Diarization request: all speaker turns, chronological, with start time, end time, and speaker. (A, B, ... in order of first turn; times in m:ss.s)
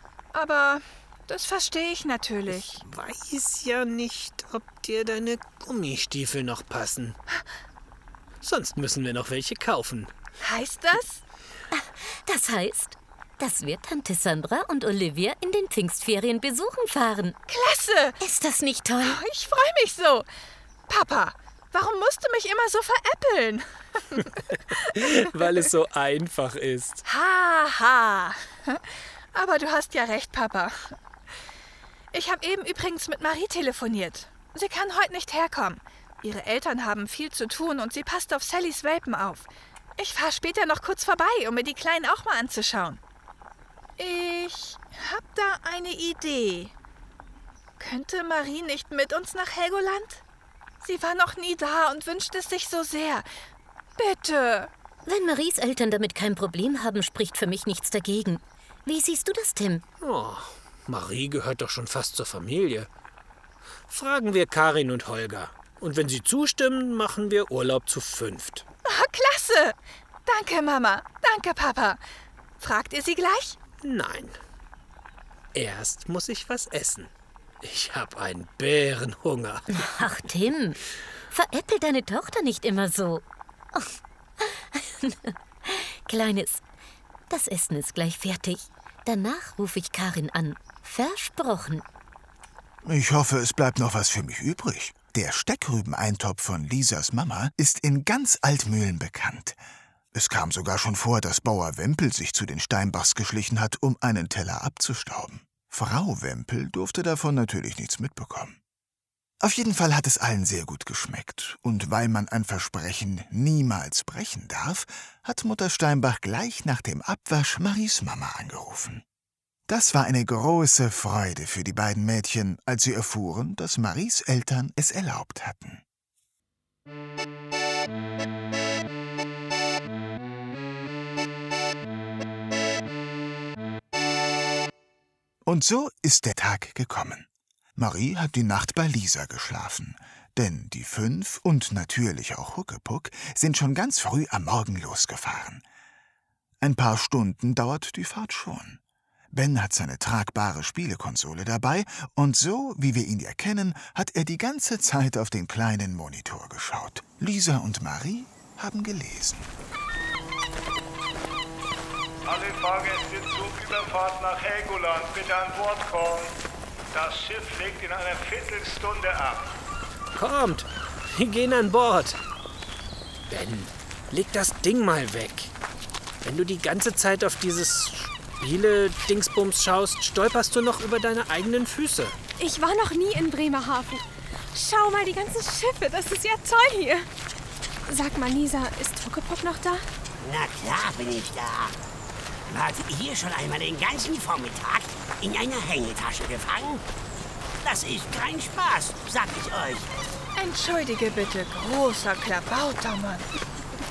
0:00.3-0:02.8 A
0:02.5-0:07.2 B
0:08.4-0:10.1 B
0:10.4-0:11.2 A
0:11.7-0:17.4 C
0:17.5-0:18.2 A
0:18.2-0:19.2 C
0:19.0-0:20.3 A
0:20.9-0:25.0 A
0:25.0-0:27.0 B
0:27.0-0:31.0 A
0:32.1-0:43.0 A
0:44.0-0:46.7 A
0:47.8-0:50.2 A
0:50.8-0:53.3 A
0:54.0-0:54.7 A
0:55.1-0:59.8 C
1:00.0-1:02.9 B
1:03.9-1:08.6 B
1:08.9-1:12.0 A
1:12.6-1:13.6 A
1:13.8-1:14.4 B
1:15.5-1:17.1 B
1:17.6-1:19.6 B
1:19.7-1:20.8 C
1:21.3-1:26.6 C
1:27.3-1:31.8 C
1:32.8-1:39.6 D
1:40.1-1:48.6 D
1:49.4-1:59.0 D
1:59.7-2:05.8 D
2:15.4-2:25.6 D
2:26.6-2:28.8 D
2:29.3-2:39.5 D
2:42.3-2:46.3 E
2:46.9-2:49.5 E
2:50.2-2:52.2 B
2:53.3-2:55.5 B
2:56.2-3:02.2 B
3:02.4-3:07.1 F
3:07.9-3:09.9 F
3:10.2-3:11.8 G
3:12.5-3:16.8 G
3:17.6-3:19.9 G
3:20.4-3:23.3 A